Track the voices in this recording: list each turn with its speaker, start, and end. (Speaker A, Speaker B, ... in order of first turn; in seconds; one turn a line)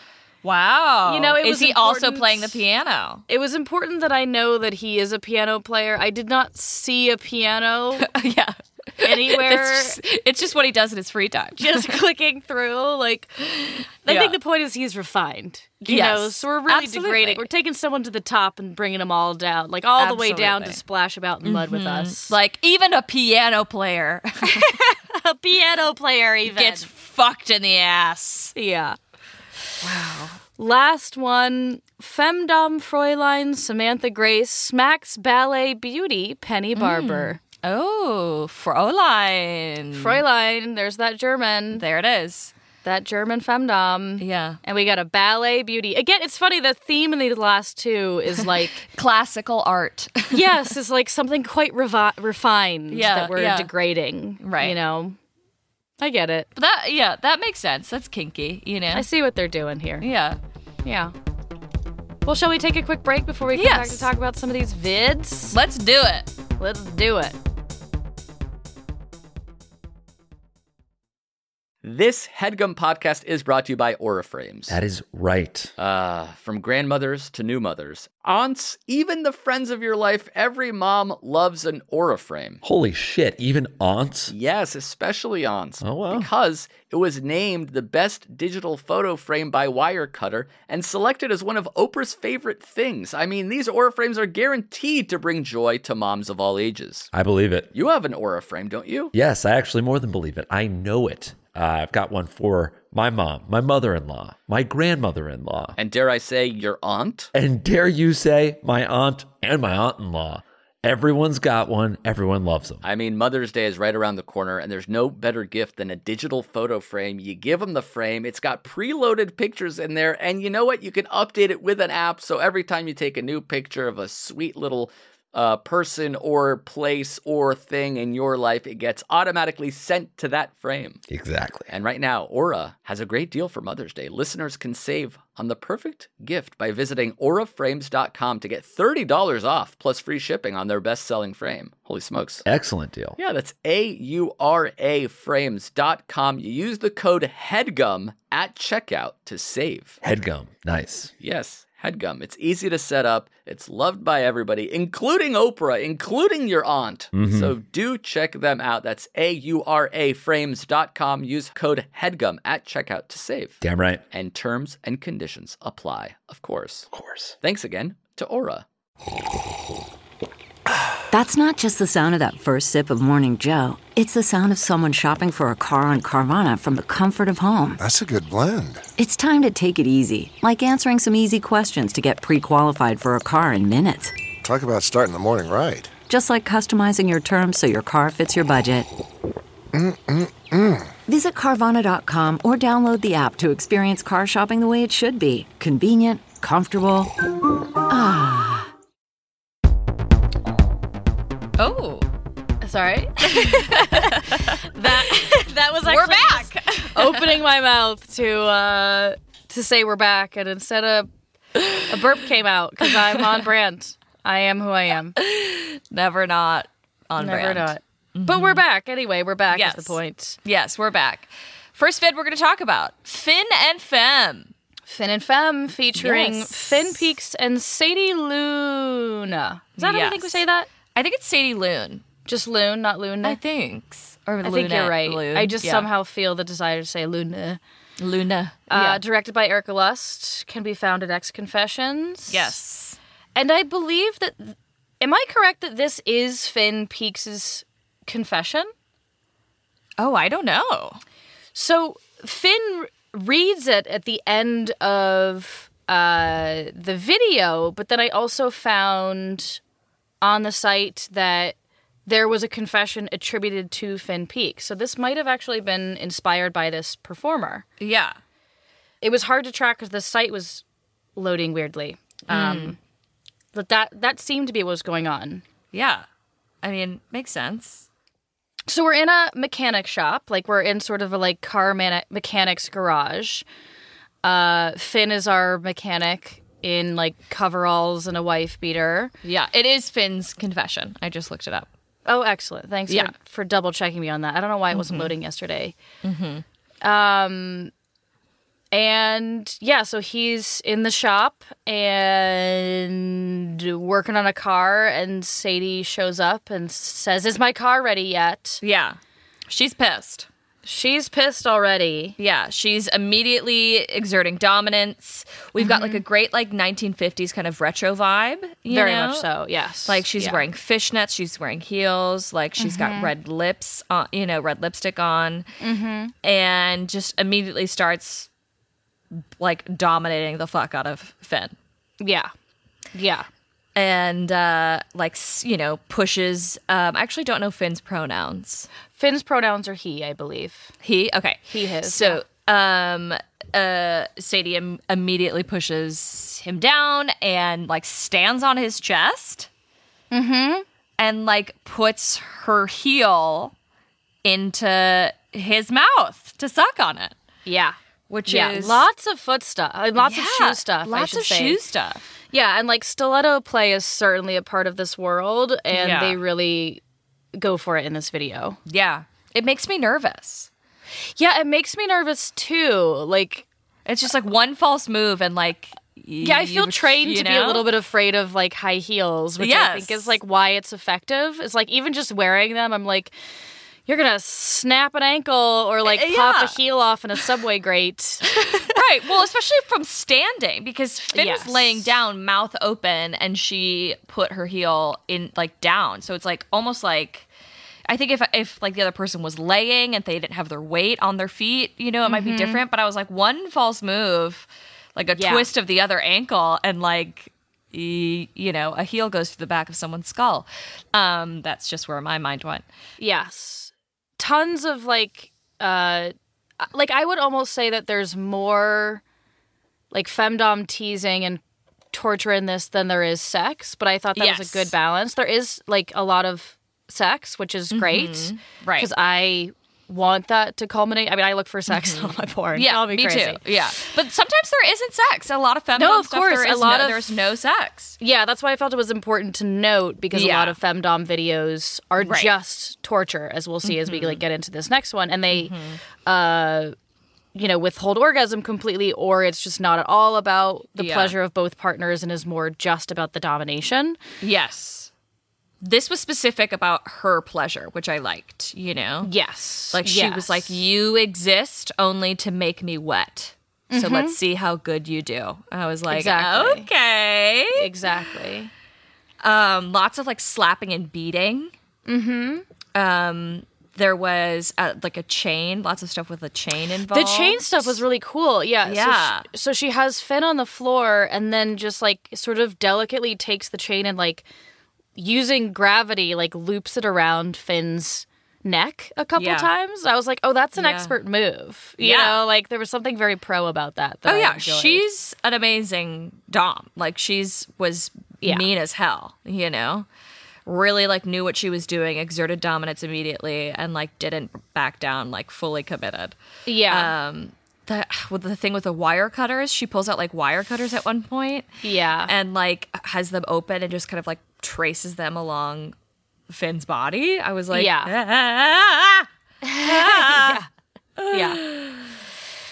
Speaker A: 0.4-3.2
Speaker B: 1.1-2.6
Speaker B: 3.3-8.1
Speaker A: 8.0-12.0
Speaker B: 9.0-10.0
Speaker B: 11.6-22.3
Speaker A: 14.0-14.4
Speaker A: 15.9-17.4
Speaker A: 20.0-20.8
Speaker A: 21.4-24.8
Speaker B: 24.4-26.9
Speaker A: 26.4-28.5
Speaker B: 28.5-29.0
Speaker A: 29.8-30.4
Speaker B: 30.6-37.4
Speaker A: 36.7-40.2
Speaker B: 39.9-41.8
Speaker A: 41.7-42.5
Speaker B: 42.8-48.8
Speaker A: 44.2-44.6
Speaker A: 48.8-50.6
Speaker B: 50.3-55.2
Speaker A: 52.9-53.7
Speaker A: 54.4-54.8
Speaker B: 56.0-56.5
Speaker A: 56.5-59.1
Speaker B: 58.9-60.0
Speaker A: 60.0-60.4
Speaker B: 60.8-61.1
Speaker B: 62.2-65.6
Speaker A: 63.5-64.1
Speaker A: 65.5-66.3
Speaker B: 66.6-67.3
Speaker C: 71.8-74.8
Speaker D: 74.7-75.7
Speaker C: 75.8-82.6
Speaker D: 82.6-84.3
Speaker C: 84.3-97.1
Speaker D: 85.8-86.3
Speaker D: 97.1-97.7
Speaker C: 97.7-99.1
Speaker D: 99.1-105.8
Speaker C: 105.8-107.3
Speaker D: 107.3-112.8
Speaker C: 112.8-131.0
Speaker D: 131.1-131.7
Speaker C: 131.7-142.4
Speaker D: 142.4-143.2
Speaker C: 143.2-150.0
Speaker D: 150.0-151.1
Speaker C: 151.2-166.9
Speaker D: 157.1-157.5
Speaker D: 163.6-164.0
Speaker D: 166.9-167.3
Speaker C: 167.4-168.6
Speaker E: 171.1-177.8
Speaker F: 177.8-178.9
Speaker E: 179.0-184.1
Speaker F: 184.4-185.9
Speaker E: 186.1-188.9
Speaker F: 189.7-190.9
Speaker E: 191.1-197.1
Speaker E: 197.9-198.7
Speaker A: 201.6-202.1
Speaker B: 202.6-211.1
Speaker A: 203.2-205.3
Speaker A: 205.8-207.4
Speaker B: 211.7-215.2
Speaker A: 215.2-218.6
Speaker B: 217.2-220.4
Speaker A: 219.5-224.5
Speaker B: 224.9-230.7
Speaker A: 225.9-227.1
Speaker A: 229.8-230.4
Speaker A: 230.9-232.0
Speaker B: 232.3-233.4
Speaker A: 233.2-235.9
Speaker B: 234.4-237.6
Speaker A: 238.0-239.0
Speaker B: 238.7-242.6
Speaker A: 242.3-243.0
Speaker B: 243.3-248.7
Speaker A: 250.0-251.0
Speaker B: 251.5-259.6
Speaker B: 260.2-267.6
Speaker A: 267.8-268.2
Speaker B: 269.0-270.6
Speaker B: 271.1-272.8
Speaker A: 272.3-272.7
Speaker B: 273.5-275.4
Speaker A: 275.7-276.0
Speaker A: 276.6-277.9
Speaker B: 278.7-283.4
Speaker B: 284.2-289.1
Speaker A: 289.2-291.7
Speaker B: 292.1-295.7
Speaker A: 292.9-293.1
Speaker A: 294.7-295.1
Speaker A: 296.0-296.4
Speaker B: 296.8-297.7
Speaker B: 298.7-308.6
Speaker A: 308.6-309.0
Speaker A: 309.5-310.3
Speaker B: 310.6-312.1
Speaker A: 312.2-319.3
Speaker B: 315.6-316.0
Speaker B: 318.7-320.4
Speaker A: 319.9-325.4
Speaker B: 322.6-323.1
Speaker B: 325.6-326.1
Speaker A: 326.2-328.3
Speaker A: 329.1-331.5
Speaker B: 332.0-332.3
Speaker B: 332.9-333.3
Speaker A: 333.8-338.7
Speaker B: 338.9-340.7
Speaker A: 340.8-349.5
Speaker B: 341.5-342.2
Speaker B: 350.1-350.6
Speaker A: 351.0-353.5
Speaker A: 354.2-357.1
Speaker B: 357.4-361.6
Speaker A: 358.1-358.8
Speaker A: 360.0-362.0
Speaker B: 362.3-366.8
Speaker A: 365.7-366.2
Speaker B: 367.4-368.6
Speaker A: 368.7-370.5
Speaker B: 371.2-373.4
Speaker A: 373.9-377.7
Speaker B: 376.2-383.1
Speaker A: 379.4-380.1
Speaker B: 383.9-388.8
Speaker A: 385.8-386.6
Speaker A: 388.3-397.3
Speaker B: 391.1-391.9
Speaker A: 397.9-412.6
Speaker B: 402.1-402.6
Speaker B: 405.1-405.5
Speaker B: 413.0-419.0
Speaker B: 419.9-421.4
Speaker B: 421.9-433.4
Speaker A: 424.1-424.7
Speaker A: 427.7-428.9
Speaker A: 431.7-438.0
Speaker B: 435.8-437.1
Speaker B: 438.0-446.7
Speaker A: 440.1-440.6
Speaker A: 442.0-442.3
Speaker A: 443.6-444.2
Speaker A: 445.3-445.8
Speaker B: 447.3-454.0
Speaker A: 450.8-451.1
Speaker A: 454.2-454.9
Speaker A: 455.6-459.1
Speaker B: 459.0-460.5
Speaker A: 459.7-467.7
Speaker B: 463.7-464.2
Speaker B: 465.9-466.7
Speaker B: 467.6-468.5
Speaker A: 469.2-471.5
Speaker B: 471.9-472.4
Speaker A: 472.7-477.8
Speaker B: 476.9-484.2
Speaker A: 478.6-479.2
Speaker B: 484.9-494.8
Speaker A: 489.1-489.5
Speaker A: 490.6-490.9
Speaker A: 491.8-492.2
Speaker A: 494.1-499.9
Speaker A: 500.4-506.1
Speaker B: 506.4-506.9
Speaker A: 506.7-511.5
Speaker B: 511.6-512.1
Speaker A: 512.1-515.7
Speaker A: 516.3-520.4
Speaker B: 517.5-517.9
Speaker B: 519.5-520.5
Speaker A: 521.0-521.9
Speaker B: 521.1-521.4